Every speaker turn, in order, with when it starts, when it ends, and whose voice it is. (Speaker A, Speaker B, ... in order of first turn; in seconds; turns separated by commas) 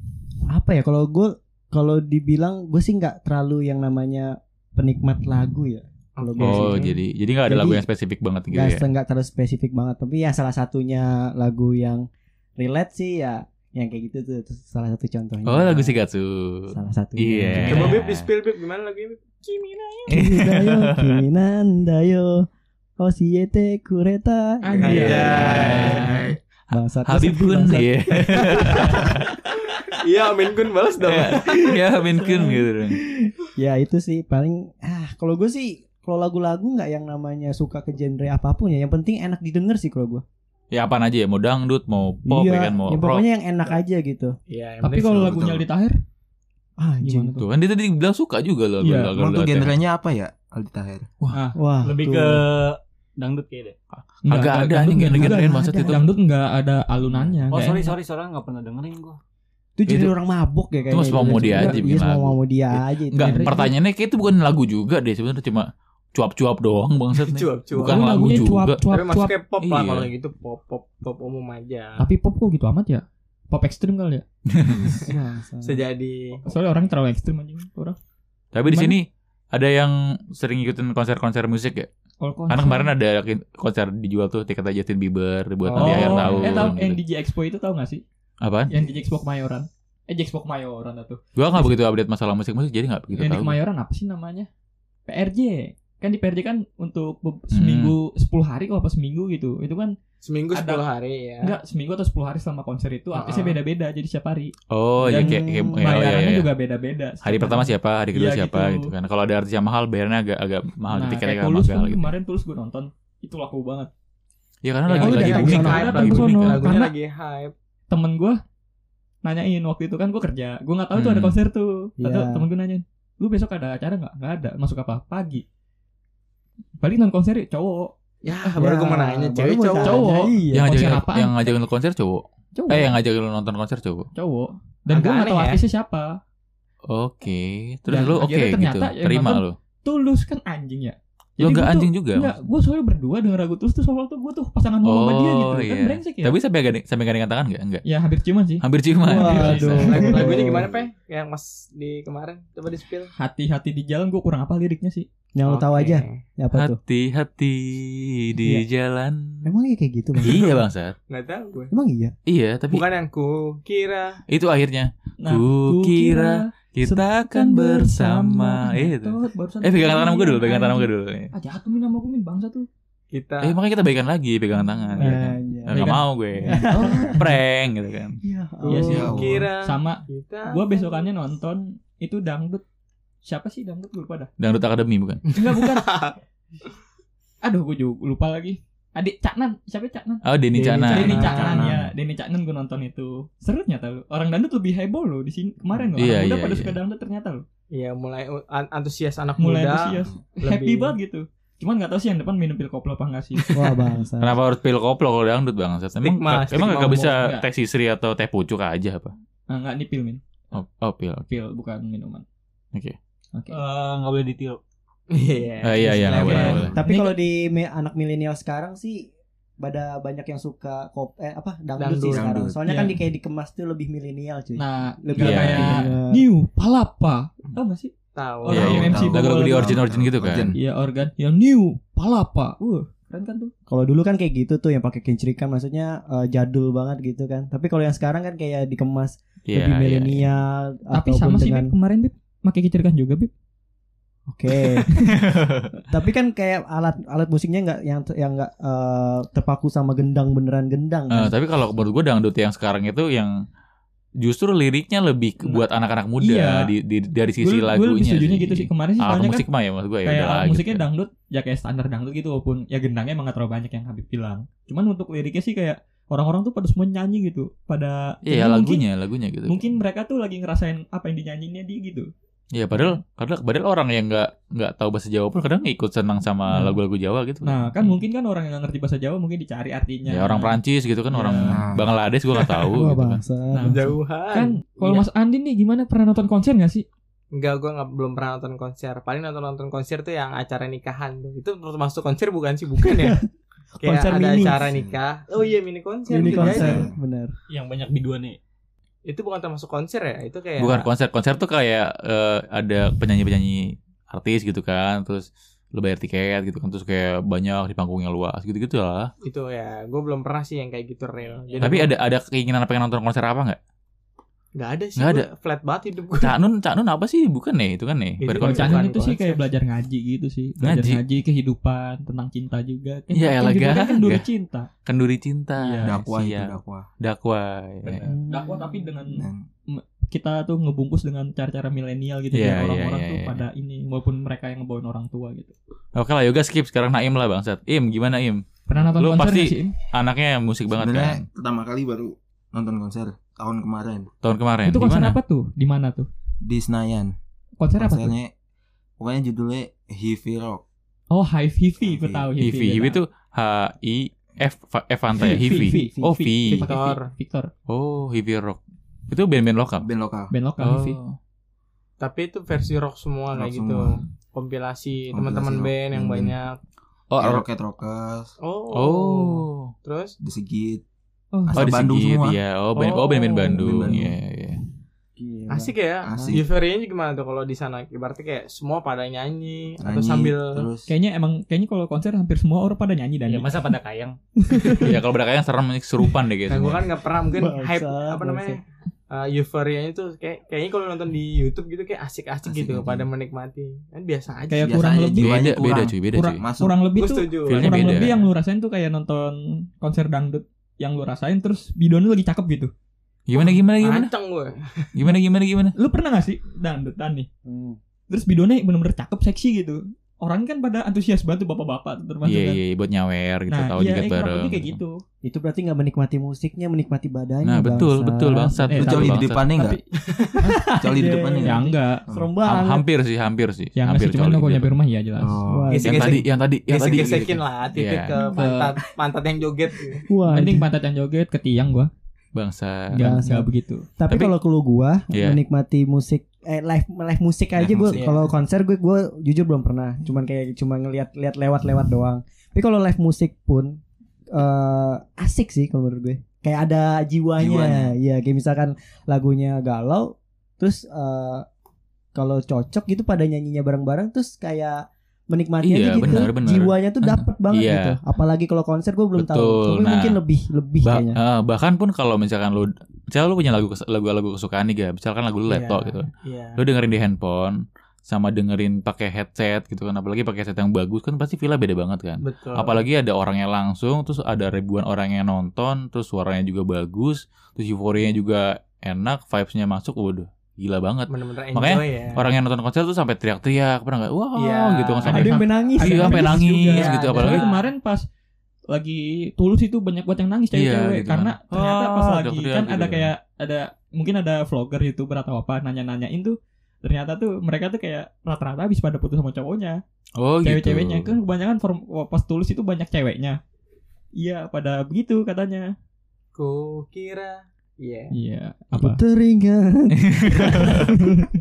Speaker A: 0.5-7.8, Speaker B: 6.2-6.8, Speaker C: 6.4-8.8, Speaker A: 8.5-12.1, Speaker A: 12.6-16.0, Speaker C: 15.5-18.3, Speaker A: 16.7-17.9, Speaker B: 17.7-20.1, Speaker C: 20.1-21.2, Speaker A: 20.1-22.5, Speaker A: 23.0-26.2, Speaker D: 24.6-26.1, Speaker B: 24.8-26.1, Speaker C: 25.1-26.2, Speaker A: 26.7-28.8, Speaker C: 27.0-29.4, Speaker B: 28.4-28.9, Speaker B: 29.7-31.8, Speaker C: 31.0-33.0, Speaker D: 32.1-32.6, Speaker A: 33.2-40.2, Speaker C: 40.7-43.3, Speaker A: 42.3-44.4, Speaker B: 44.5-45.4, Speaker D: 44.8-46.0, Speaker E: 45.2-45.6, Speaker A: 46.8-47.4, Speaker D: 47.0-47.5, Speaker C: 47.4-49.8, Speaker D: 48.8-49.1, Speaker E: 49.2-51.1, Speaker C: 51.2-51.5, Speaker D: 51.3-51.6, Speaker A: 51.5-52.4, Speaker F: 51.8-53.8, Speaker C: 54.0-56.0, Speaker D: 54.3-58.0, Speaker A: 55.1-56.0, Speaker F: 57.5-59.2, Speaker A: 59.8-63.7, Speaker C: 59.9-60.1, Speaker C: 60.9-68.8, Speaker D: 61.0-61.8, Speaker D: 63.2-63.7, Speaker B: 67.2-72.0, Speaker D: 67.8-69.4, Speaker C: 69.6-70.1, Speaker D: 72.0-74.2, Speaker C: 74.5-74.9, Speaker A: 75.0-75.8, Speaker B: 75.6-76.5, Speaker D: 76.5-78.0, Speaker C: 78.5-81.9, Speaker D: 78.7-79.0, Speaker D: 82.2-82.9, Speaker C: 82.5-87.0, Speaker B: 85.7-86.7, Speaker D: 85.7-88.0, Speaker C: 88.4-88.8, Speaker D: 88.7-91.8, Speaker C: 91.4-93.6, Speaker D: 93.1-94.5, Speaker D: 95.1-99.9, Speaker C: 97.5-98.0, Speaker B: 100.2-101.6, Speaker D: 100.5-100.8, Speaker D: 101.4-108.9, Speaker B: 103.2-103.6, Speaker C: 104.7-106.5, Speaker A: 105.0-105.9, Speaker C: 107.2-112.1, Speaker D: 110.9-113.9, Speaker C: 114.6-116.7, Speaker D: 114.9-116.9, Speaker B: 115.0-117.5, Speaker A: 115.0-116.2, Speaker D: 117.9-118.4, Speaker D: 119.2-125.4, Speaker C: 120.9-121.4, Speaker A: 122.0-122.5, Speaker D: 126.8-127.9, Speaker B: 128.2-130.0, Speaker A: 128.4-130.8, Speaker D: 129.8-131.6, Speaker C: 130.5-134.1, Speaker D: 132.6-133.0, Speaker D: 134.2-136.2, Speaker B: 134.9-135.6, Speaker C: 136.9-139.6, Speaker D: 137.9-146.4, Speaker C: 141.4-142.4, Speaker C: 144.8-147.8, Speaker D: 147.8-150.6, Speaker C: 148.6-150.2, Speaker A: 149.1-150.7, Speaker B: 149.3-153.1, Speaker D: 153.2-155.1, Speaker A: 155.3-156.8, Speaker B: 155.5-156.2, Speaker C: 156.5-159.5, Speaker A: 159.4-160.6, Speaker C: 160.2-161.0, Speaker B: 161.1-161.7, Speaker A: 161.7-162.2, Speaker C: 162.3-162.9, Speaker B: 162.7-164.2, Speaker C: 164.3-171.3, Speaker D: 165.2-172.7, Speaker B: 173.1-173.6, Speaker C: 173.4-178.2, Speaker A: 175.0-175.9, Speaker D: 175.7-177.3, Speaker A: 176.5-177.3, Speaker A: 178.2-179.2, Speaker D: 178.7-182.6, Speaker E: 178.8-179.5, Speaker B: 178.9-181.1, Speaker D: 183.2-184.3, Speaker C: 184.4-185.2, Speaker D: 185.3-185.9, Speaker B: 185.5-186.2, Speaker D: 187.4-190.2, Speaker C: 190.2-191.4, Speaker B: 190.6-191.6, Speaker D: 190.8-197.4, Speaker E: 191.4-191.9, Speaker C: 196.0-196.8, Speaker B: 197.7-200.9, Speaker D: 199.4-203.5, Speaker A: 203.5-204.4, Speaker C: 204.2-209.1, Speaker B: 206.0-207.1, Speaker D: 206.6-207.5, Speaker D: 209.5-210.2, Speaker C: 210.5-211.2, Speaker D: 211.3-212.2, Speaker F: 213.5-214.6, Speaker B: 215.1-216.6, Speaker C: 215.6-216.8, Speaker A: 216.0-226.3, Speaker D: 216.2-217.2, Speaker B: 221.8-222.3, Speaker E: 222.1-222.6, Speaker D: 222.7-223.0, Speaker D: 224.6-229.8, Speaker C: 225.2-225.9, Speaker B: 228.2-228.9, Speaker C: 228.5-230.5, Speaker E: 228.6-230.6, Speaker D: 230.6-233.5, Speaker A: 233.7-241.7, Speaker C: 239.5-240.2, Speaker D: 240.9-243.3, Speaker A: 244.3-244.9, Speaker C: 245.1-245.7, Speaker A: 245.8-251.3, Speaker C: 251.1-253.3, Speaker C: 254.2-260.8, Speaker D: 256.2-256.7, Speaker D: 257.4-259.5, Speaker D: 260.1-268.9, Speaker C: 268.2-269.7, Speaker D: 269.5-272.1, Speaker C: 272.5-278.0, Speaker D: 272.7-273.0, Speaker D: 276.5-276.8, Speaker D: 277.4-280.6, Speaker C: 280.1-283.2, Speaker D: 281.1-281.6, Speaker E: 281.5-281.9, Speaker A: 282.6-284.0, Speaker D: 283.5-286.9, Speaker B: 283.6-285.1, Speaker B: 287.3-293.2, Speaker A: 292.8-293.1, Speaker A: 293.8-294.6, Speaker B: 293.8-296.9, Speaker E: 294.6-295.0, Speaker A: 296.1-297.3, Speaker E: 296.2-297.0, Speaker F: 297.5-298.4, Speaker B: 299.1-300.9, Speaker C: 300.6-309.1, Speaker B: 309.2-311.9, Speaker C: 311.6-313.6, Speaker B: 314.6-316.4, Speaker C: 315.0-315.3, Speaker C: 316.1-318.9, Speaker B: 318.2-319.4, Speaker D: 318.3-324.7, Speaker C: 320.6-321.0, Speaker C: 323.1-324.3, Speaker C: 324.9-328.1, Speaker D: 325.6-326.0, Speaker E: 325.8-326.9, Speaker D: 328.0-335.5, Speaker A: 328.1-329.1, Speaker E: 329.1-329.5, Speaker C: 332.3-333.4, Speaker C: 335.9-341.2, Speaker D: 338.7-339.8, Speaker E: 340.7-344.1, Speaker C: 344.2-345.2, Speaker D: 344.6-346.1, Speaker E: 346.4-347.1, Speaker D: 347.6-348.1, Speaker E: 347.8-348.3, Speaker E: 349.0-350.6, Speaker D: 351.1-353.0, Speaker E: 351.8-352.3, Speaker C: 352.4-356.8, Speaker D: 355.2-357.5, Speaker A: 355.2-356.1, Speaker B: 356.5-357.1, Speaker C: 357.7-359.9, Speaker E: 359.8-360.3, Speaker D: 360.3-361.0, Speaker C: 360.6-361.2, Speaker B: 362.0-366.6, Speaker E: 363.3-364.0, Speaker E: 365.1-366.4, Speaker C: 367.1-367.4, Speaker E: 367.2-368.3, Speaker B: 368.4-370.2, Speaker C: 368.7-369.7, Speaker E: 370.2-370.8, Speaker D: 371.3-371.6, Speaker E: 371.5-372.4, Speaker C: 371.5-374.6, Speaker B: 372.8-373.6, Speaker E: 373.6-374.1, Speaker A: 375.2-376.4, Speaker B: 375.5-380.7, Speaker E: 376.0-376.4, Speaker E: 379.8-380.9, Speaker D: 380.9-383.5, Speaker F: 383.3-384.2, Speaker C: 384.8-386.9, Speaker B: 386.5-394.8, Speaker A: 387.3-388.6, Speaker E: 392.4-393.1, Speaker D: 394.5-395.4, Speaker E: 394.6-396.9, Speaker C: 395.2-396.4, Speaker D: 396.1-402.7, Speaker B: 397.0-398.1, Speaker C: 397.5-398.3, Speaker C: 403.3-404.1, Speaker B: 403.4-405.1, Speaker C: 404.9-405.7, Speaker D: 405.8-407.3, Speaker A: 407.4-407.8, Speaker D: 408.1-412.6, Speaker C: 412.2-414.8, Speaker D: 413.5-415.0, Speaker A: 415.2-418.8, Speaker C: 417.4-419.5, Speaker D: 418.7-419.8, Speaker E: 418.8-419.8, Speaker B: 420.1-420.4, Speaker D: 420.4-422.1, Speaker A: 420.6-422.9, Speaker E: 420.8-422.3, Speaker C: 422.4-424.7, Speaker D: 423.8-425.4, Speaker E: 425.2-426.1, Speaker A: 425.5-426.2, Speaker B: 425.7-430.0, Speaker C: 425.8-428.1, Speaker D: 428.3-428.8, Speaker A: 430.1-430.7, Speaker D: 430.3-431.9, Speaker C: 432.4-433.0, Speaker D: 432.9-433.9, Speaker A: 433.0-451.5, Speaker C: 435.1-435.4, Speaker E: 437.6-438.1, Speaker B: 438.0-438.3, Speaker E: 447.4-447.9, Speaker A: 452.1-461.2, Speaker C: 455.6-458.0, Speaker C: 459.2-460.2, Speaker C: 460.8-487.5, Speaker B: 465.5-466.6, Speaker B: 472.2-472.9, Speaker B: 481.1-482.3, Speaker B: 484.4-485.3, Speaker A: 485.1-486.9, Speaker D: 485.1-488.0, Speaker B: 486.7-487.6, Speaker D: 488.7-499.8, Speaker C: 490.5-493.1, Speaker C: 500.2-501.1, Speaker D: 500.4-503.4, Speaker D: 504.2-505.7, Speaker B: 506.4-508.1, Speaker D: 508.1-509.0, Speaker A: 508.7-511.3, Speaker C: 509.9-511.0